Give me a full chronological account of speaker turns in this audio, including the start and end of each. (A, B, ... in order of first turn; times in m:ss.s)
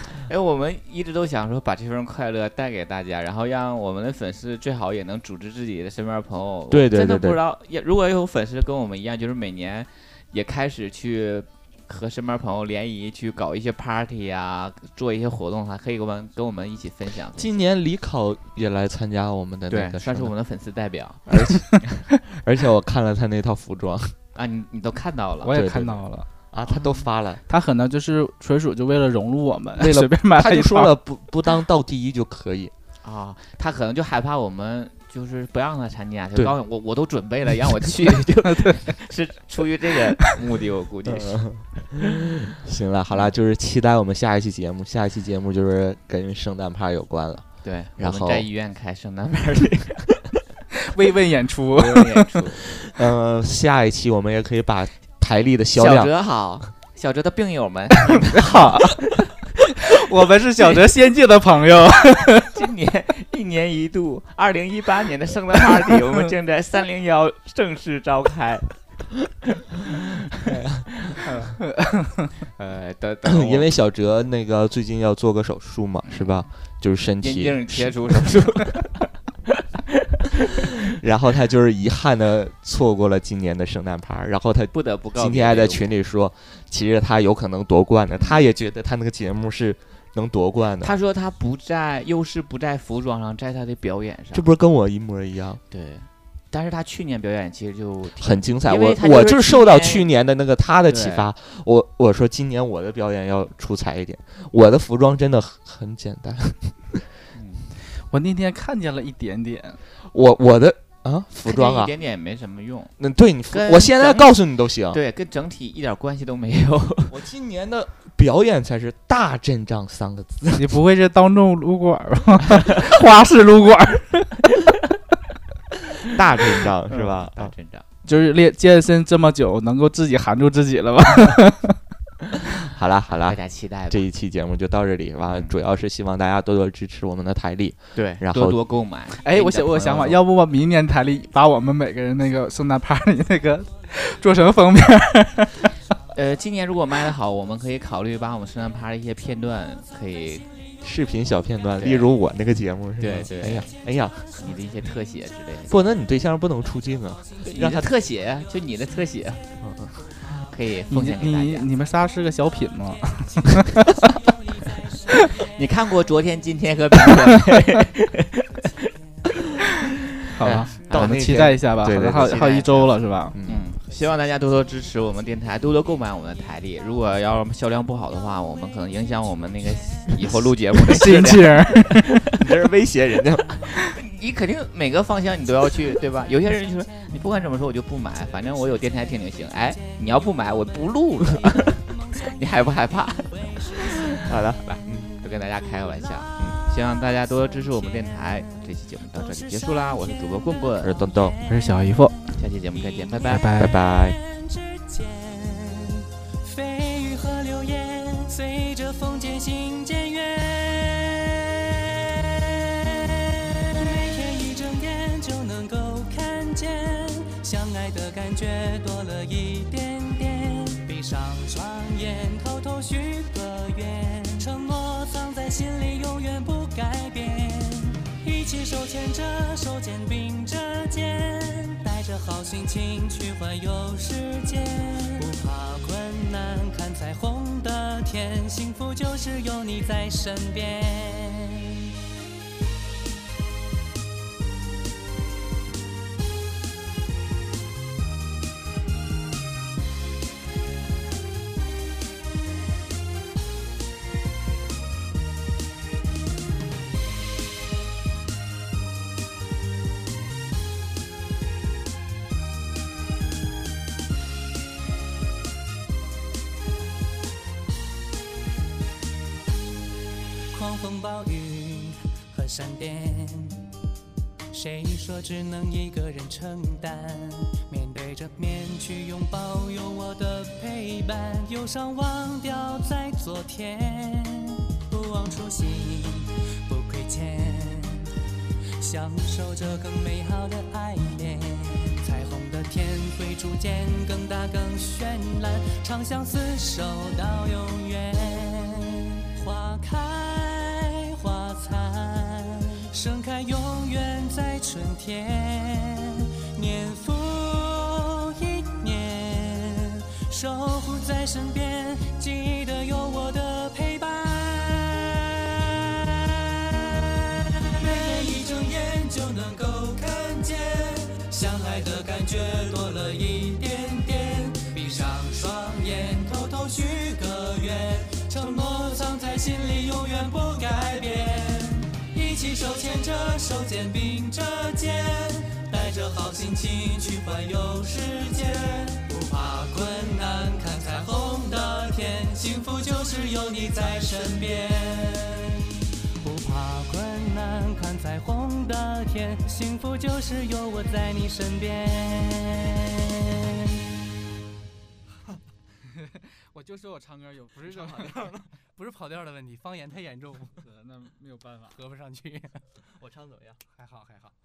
0:00.1-0:17.6 A
0:06.7-0:07.4 B
0:17.4-0:20.3 B
0:19.7-0:21.3 A
0:21.3-0:24.2 B
0:24.4-0:25.5 A
0:25.4-0:26.3 C
0:25.5-0:27.4 B
0:26.7-0:27.0 A
0:27.5-0:30.9 C
0:29.8-0:32.7 B
0:33.0-0:41.9 A
0:41.1-0:48.4 B
0:47.6-0:50.0 A
0:50.9-0:52.3 C
0:51.8-0:52.8 A
0:52.9-0:56.1 B
0:55.8-0:59.1 A
0:58.3-0:59.0 C
0:59.9-1:02.5 C
1:02.5-1:08.8 A
1:10.4-1:11.5 B
1:11.1-1:11.6 A
1:12.6-1:13.7 A
1:13.2-1:18.4 B
1:16.1-1:16.4 A
1:17.2-1:19.1 A
1:20.4-1:20.7 A
1:21.0-1:30.9 B
1:24.7-1:25.9 A
1:30.8-1:34.5 A
1:34.3-1:35.6 B
1:35.7-1:40.1 A
1:38.2-1:47.0 B
1:40.9-1:41.3 A
1:47.3-1:47.7 A
1:48.1-1:49.8 C
1:50.1-1:51.9 B
1:51.4-1:52.9 A
1:53.0-1:55.0 B
1:53.5-1:57.1 A
1:57.1-2:00.8 B
2:00.6-2:04.5 C
2:06.1-2:07.5 B
2:06.9-2:07.8 A
2:08.0-2:11.8 C
2:12.7-2:18.6 B
2:13.3-2:14.0 A
2:18.0-2:20.2 A
2:19.2-2:25.7 C
2:26.1-2:30.5 A
2:30.8-2:34.4 B
2:31.8-2:32.1 A
2:33.0-2:33.7 A
2:34.4-2:35.8 A
2:35.7-2:37.9 B
2:37.4-2:39.5 A
2:39.6-2:39.9 B
2:40.2-2:41.7 A
2:40.9-2:44.0 C
2:45.4-2:48.9 A
2:50.4-2:53.4 C
2:50.4-2:52.7 B
2:52.3-2:52.9 A
2:53.3-2:53.7 B
2:53.4-3:01.9 A
3:00.9-3:02.2 C
3:02.4-3:03.6 B
3:03.6-3:21.0 A
3:14.2-3:15.1 B
3:20.8-3:21.4 B
3:21.2-3:21.4 D
3:21.5-3:22.2 C
3:22.4-3:23.6 A
3:23.3-3:23.8 C
3:23.6-3:24.2 B
3:23.9-4:01.8 D
4:30.5-4:33.7 D
4:34.5-4:48.1 D
4:48.8-5:53.8 D
5:56.0-5:58.6 C
5:57.8-6:00.6 D
6:00.5-6:01.8 C
6:01.8-6:02.6 D
6:03.0-6:04.3 C